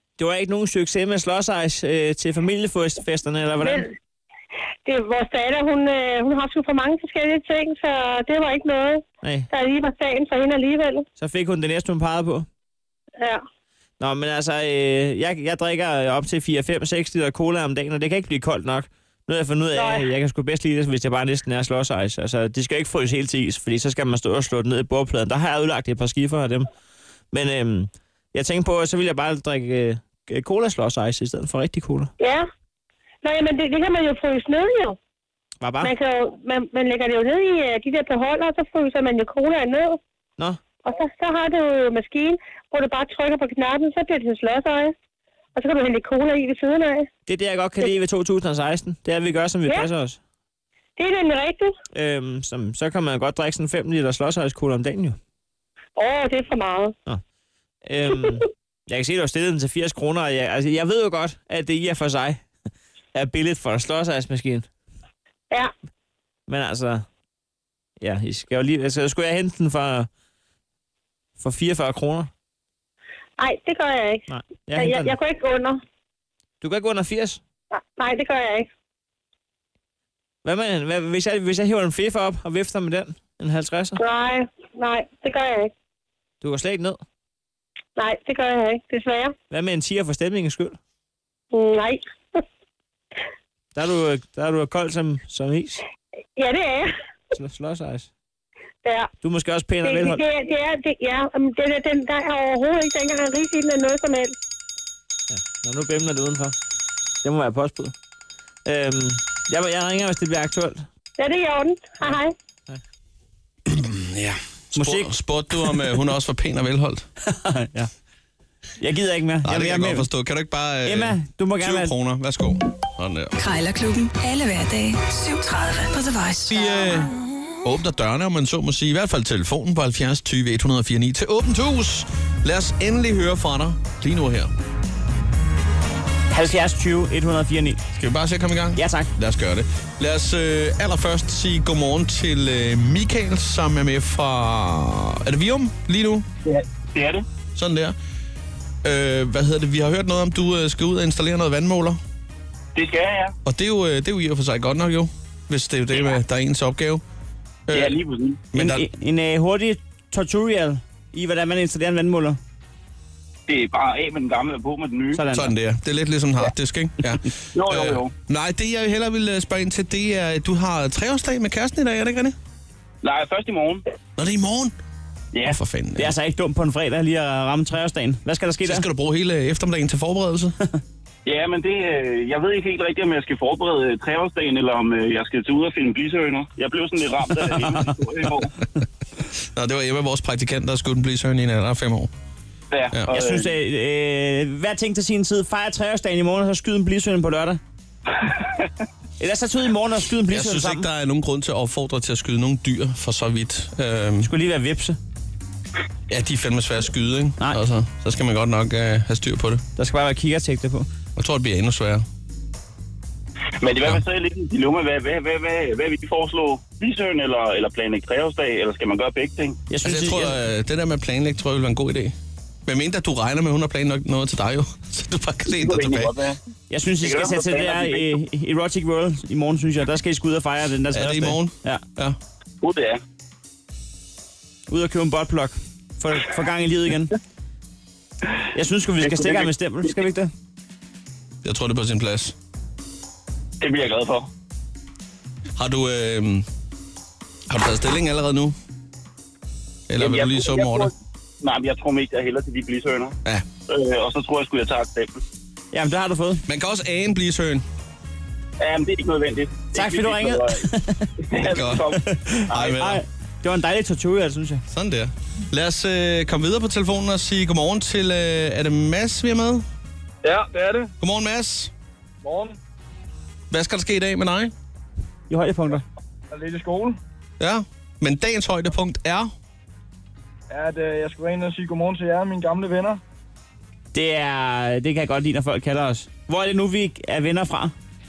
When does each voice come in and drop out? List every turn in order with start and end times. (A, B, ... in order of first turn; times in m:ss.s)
0:00.2-0:03.8 A
0:03.6-0:03.9 B
0:04.8-0:11.0 B
0:09.2-0:09.5 A
0:11.2-0:12.5 A
0:13.2-0:13.4 B
0:14.0-0:26.7 A
0:19.7-0:20.1 B
0:27.3-0:32.1 A
0:32.2-0:32.5 B
0:33.2-0:35.0 B
0:35.6-0:35.9 A
0:35.8-0:40.0 B
0:40.8-0:45.0 B
0:45.6-0:47.1 B
0:47.3-0:50.2 A
0:51.0-0:51.8 B
0:51.9-0:55.2 A
0:56.0-0:56.9 B
0:57.9-1:02.5 A
1:03.1-1:04.7 A
1:06.5-1:07.1 A
1:08.0-1:10.1 A
1:11.4-1:12.3 A
1:13.4-1:15.8 B
1:14.3-1:15.2 A
1:16.6-1:17.4 A
1:17.7-1:18.7 B
1:20.4-1:24.0 A
1:24.0-1:25.7 B
1:26.4-1:27.0 A
1:28.0-1:29.4 B
1:29.5-1:30.8 A
1:31.5-1:32.4 B
1:33.8-1:35.8 A
1:36.4-1:36.9 B
1:37.3-1:38.1 A
1:39.2-1:40.2 A
1:39.8-1:44.4 B
1:45.3-1:46.6 A
1:47.2-1:47.9 A
1:48.7-1:50.8 A
1:51.2-1:52.3 B
1:53.7-1:57.1 C
1:54.8-1:55.8 A
1:57.2-1:57.9 A
1:58.8-2:00.1 A
1:59.4-2:03.4 C
2:00.9-2:01.9 A
2:03.4-2:07.0 D
2:06.5-2:14.5 C
2:16.3-2:17.8 A
2:18.0-2:26.3 C
2:18.8-2:19.1 A
2:26.4-2:27.3 E
2:27.6-2:28.0 C
2:28.8-2:32.0 C
2:32.8-2:33.4 E
2:33.4-2:37.0 C
2:37.7-2:38.0 C
2:37.7-2:38.4 E
2:38.5-2:38.9 C
2:38.5-2:42.4 A
2:43.5-2:45.2 E
2:45.2-2:45.5 A
2:45.3-2:52.4 C
2:47.6-2:48.1 E
2:53.0-2:53.8 E
2:54.2-2:54.8 C
2:55.5-2:56.1 C
2:56.0-2:58.9 A
2:58.6-3:00.6 C
3:01.3-3:08.5 E
3:07.4-3:07.9 A
3:09.4-3:12.1 C
3:12.7-3:13.6 E
3:13.1-3:17.6 A
3:19.2-3:20.9 A
3:20.3-3:24.3 C
3:24.2-3:25.0 A
3:26.1-3:29.6 C
3:29.8-3:30.9 A
3:31.2-3:32.1 C
3:33.6-3:39.6 E
3:39.7-3:40.4 A
3:39.8-3:46.1 C
3:45.6-3:46.4 E
3:46.7-3:51.8 A
3:47.0-3:48.2 E
3:50.9-3:52.2 C
3:52.6-3:53.0 E
3:54.7-3:57.1 A
3:58.5-4:00.3 A
3:59.0-4:00.0 E
4:01.4-4:02.4 C
4:03.6-4:04.3 E
4:05.6-4:06.5 C
4:07.5-4:08.6 C
4:09.9-4:10.9 C
4:10.0-4:13.2 E
4:13.7-4:15.2 E
4:15.7-4:16.4 A
4:16.5-4:17.6 C
4:18.6-4:20.7 E
4:19.7-4:21.1 A
4:21.2-4:22.7 E
4:21.4-4:21.9 C
4:22.0-4:24.6 A
4:22.5-4:23.0 C
4:24.7-4:29.7 C
4:30.2-4:30.9 F
4:31.0-4:31.7 C
4:32.2-4:32.6 F
4:33.5-4:34.5 C
4:35.3-4:35.8 A
4:36.3-4:37.0 F
4:37.4-4:39.3 C
4:40.5-4:43.0 F
4:43.9-4:47.7 A